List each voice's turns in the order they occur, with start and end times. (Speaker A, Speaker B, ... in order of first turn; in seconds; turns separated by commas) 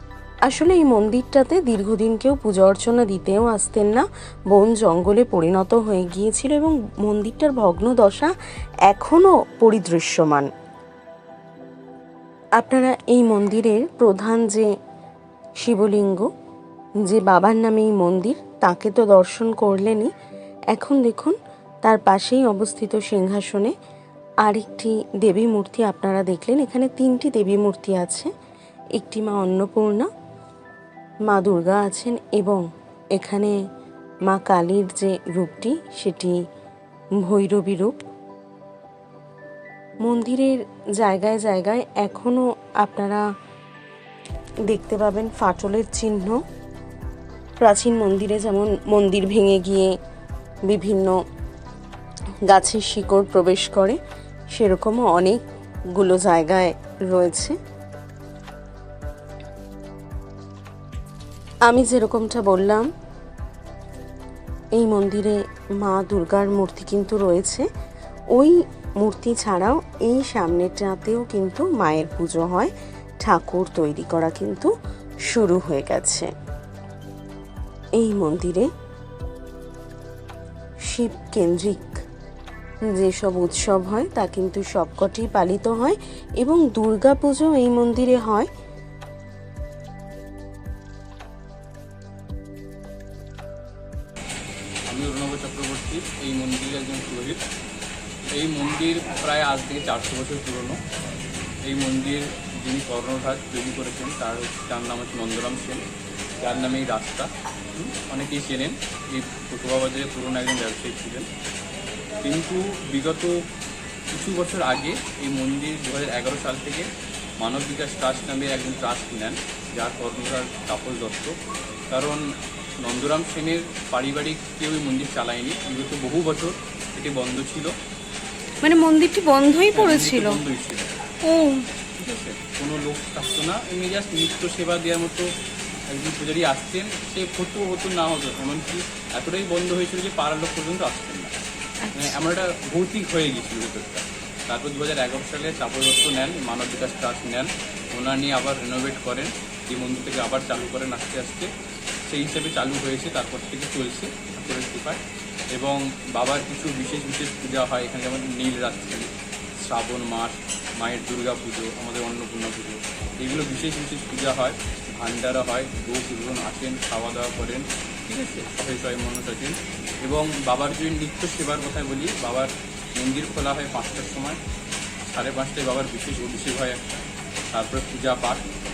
Speaker A: 0.5-8.3, Speaker A: 8.9-10.5, Speaker A: 12.6-14.7, Speaker A: 15.6-16.3, Speaker A: 17.1-20.1, Speaker A: 20.7-23.7, Speaker A: 24.4-28.3, Speaker A: 29.0-30.1, Speaker A: 31.3-32.6, Speaker A: 33.2-33.5, Speaker A: 34.3-36.4, Speaker A: 37.2-37.9, Speaker A: 40.0-43.2, Speaker A: 44.7-46.4, Speaker A: 47.6-49.9, Speaker A: 50.7-51.1, Speaker A: 52.5-54.0, Speaker A: 54.5-55.4, Speaker A: 56.0-57.5, Speaker A: 61.7-62.9, Speaker A: 64.8-67.7, Speaker A: 68.3-72.7, Speaker A: 73.2-74.7, Speaker A: 75.3-76.3, Speaker A: 78.0-78.7, Speaker A: 80.9-82.0, Speaker A: 82.9-88.5, Speaker B: 94.9-97.4, Speaker B: 98.3-100.8, Speaker B: 101.7-105.8, Speaker B: 106.4-111.3, Speaker B: 112.2-113.4, Speaker B: 114.1-121.3, Speaker B: 121.9-122.2, Speaker B: 122.8-127.7, Speaker C: 128.6-130.4, Speaker B: 129.7-130.9, Speaker C: 131.2-131.7, Speaker B: 132.0-135.3, Speaker B: 135.9-141.3, Speaker C: 141.8-142.2, Speaker B: 141.9-151.5, Speaker B: 152.1-155.0, Speaker B: 155.5-159.1, Speaker B: 159.6-174.4, Speaker B: 175.1-176.8, Speaker B: 177.5-178.4